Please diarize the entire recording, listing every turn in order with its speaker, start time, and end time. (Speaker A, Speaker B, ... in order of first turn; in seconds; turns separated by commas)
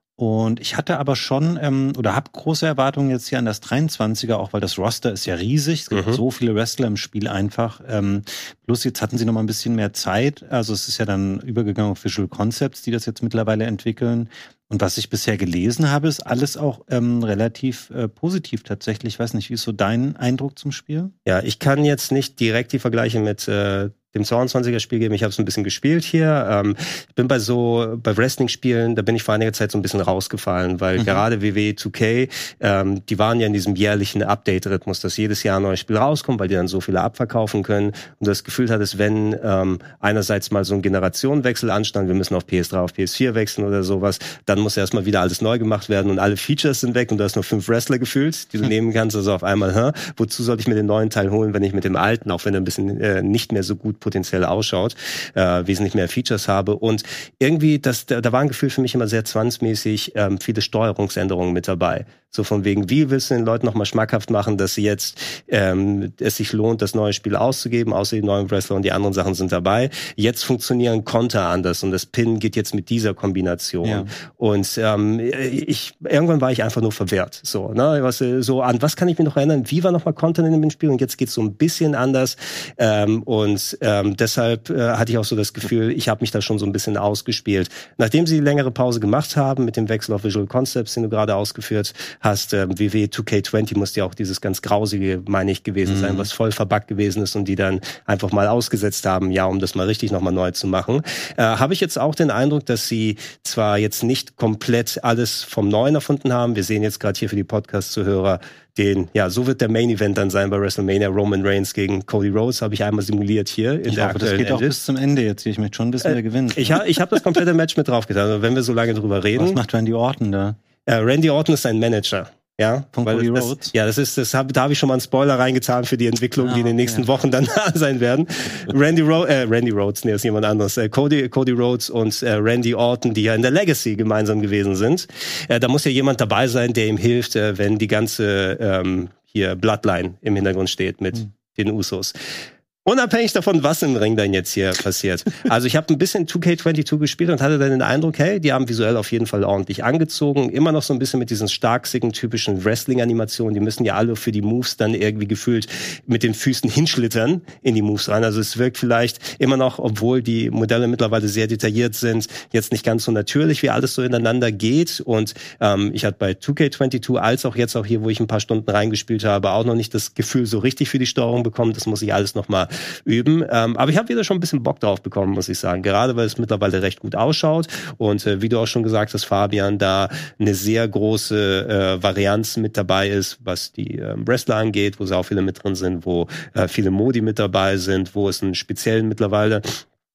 Speaker A: 0.2-21.1, Speaker B: 5.9-6.2, Speaker B: 21.2-114.7, Speaker A: 31.0-31.2, Speaker A: 73.8-74.1, Speaker A: 95.8-96.3, Speaker A: 113.9-116.8, Speaker B: 116.0-119.6, Speaker A: 119.3-120.6, Speaker B: 120.8-142.3, Speaker A: 122.9-123.7, Speaker A: 126.4-127.1, Speaker B: 142.8-189.8